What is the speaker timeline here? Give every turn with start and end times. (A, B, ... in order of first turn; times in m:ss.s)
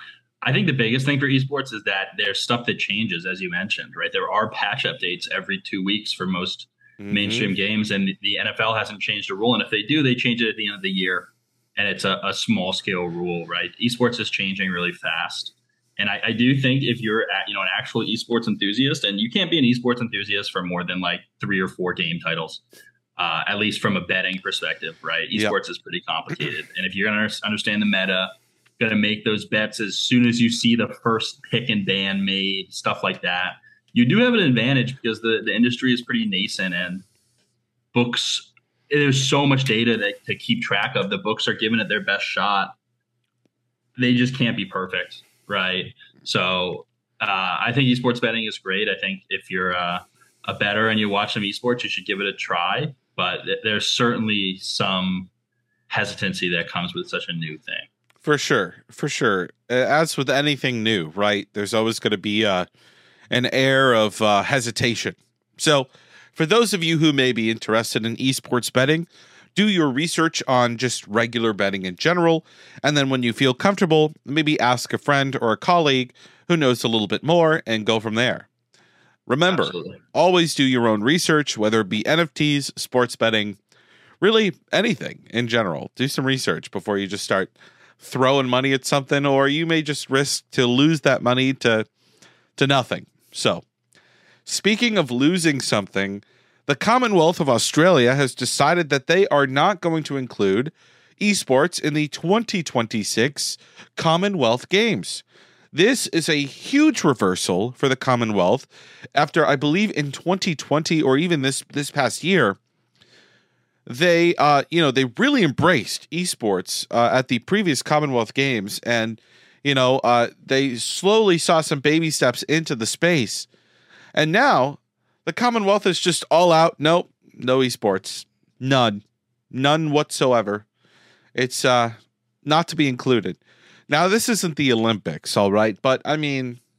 0:00.4-0:22.6 A
0:07.0-0:07.5 B
0:23.2-0:37.1 A
0:37.9-0:42.7 A
0:44.0-0:55.3 A
0:55.9-0:57.9 A
0:58.2-1:02.7 B
1:03.3-1:18.5 B
1:19.3-1:23.6 B
1:19.5-1:20.0 A
1:24.2-1:31.9 B
1:32.6-1:33.6 B
1:34.5-1:52.6 B
1:53.9-2:03.5 B
2:04.2-2:10.7 B
2:11.4-2:16.6 B